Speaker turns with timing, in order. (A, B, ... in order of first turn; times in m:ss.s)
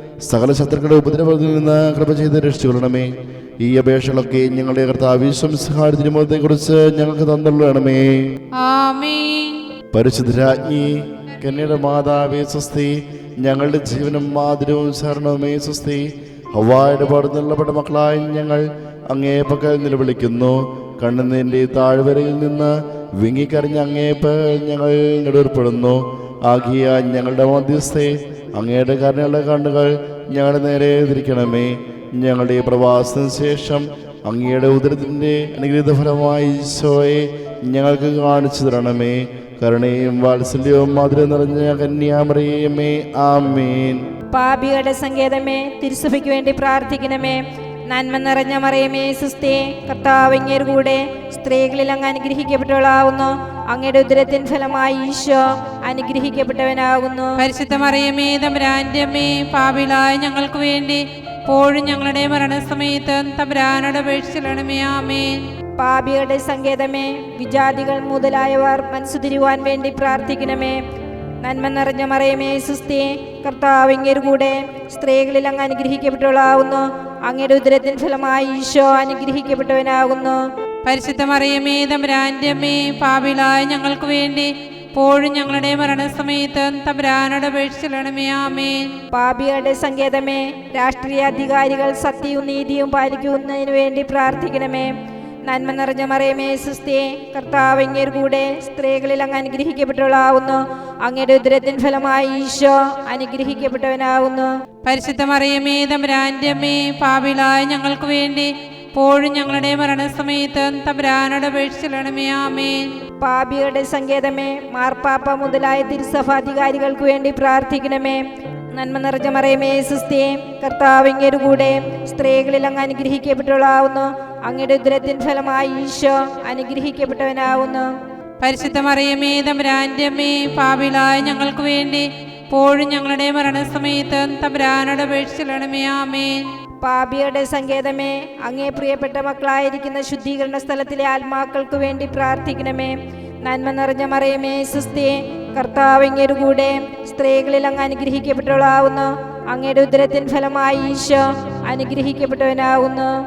0:00.2-0:08.3 A
0:08.6-0:09.6 B
0:09.9-0:44.0 A
0:44.3-0:57.4 C
0:57.4-1:05.4 B
1:05.8-1:10.8 C
1:11.4-1:20.4 C
1:20.8-1:28.9 B
1:29.1-1:34.9 C
1:35.5-1:44.5 C
1:44.9-1:52.9 B
1:53.2-2:07.9 C
2:08.4-2:16.4 B
2:16.8-2:33.1 C